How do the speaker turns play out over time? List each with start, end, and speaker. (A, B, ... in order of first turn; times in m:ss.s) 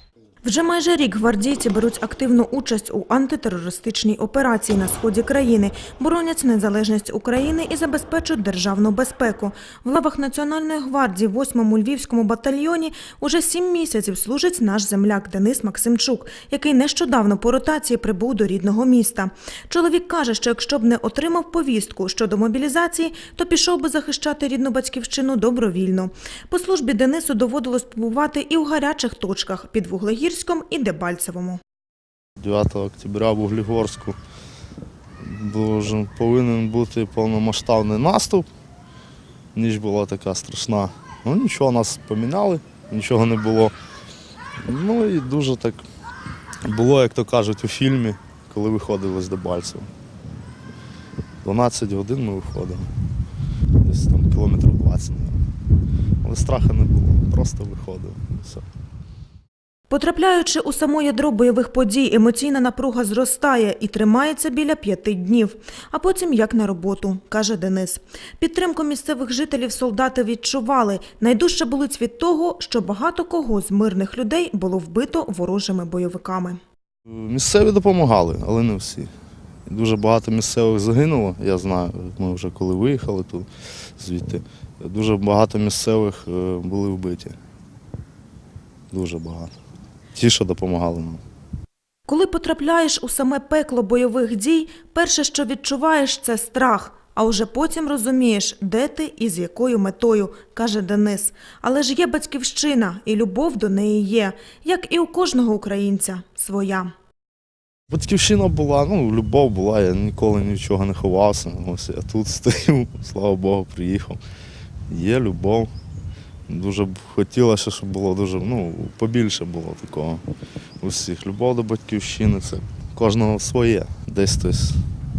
0:00.4-0:31.6 A
0:32.4-0:34.2 B
0:35.2-0:38.4 B
0:39.5-0:43.7 B
0:44.6-0:45.8 B
0:46.6-0:49.9 B
0:51.4-0:52.9 B
0:53.8-0:55.4 B
0:56.2-0:58.6 B
0:59.9-1:16.6 A
1:17.1-1:19.1 B
1:19.6-1:27.4 B
1:28.9-1:29.5 B
1:30.1-1:31.2 B
1:32.1-1:46.9 A
1:47.9-1:54.2 B
1:54.9-1:55.7 B
1:56.5-2:00.2 B
2:00.8-2:04.8 B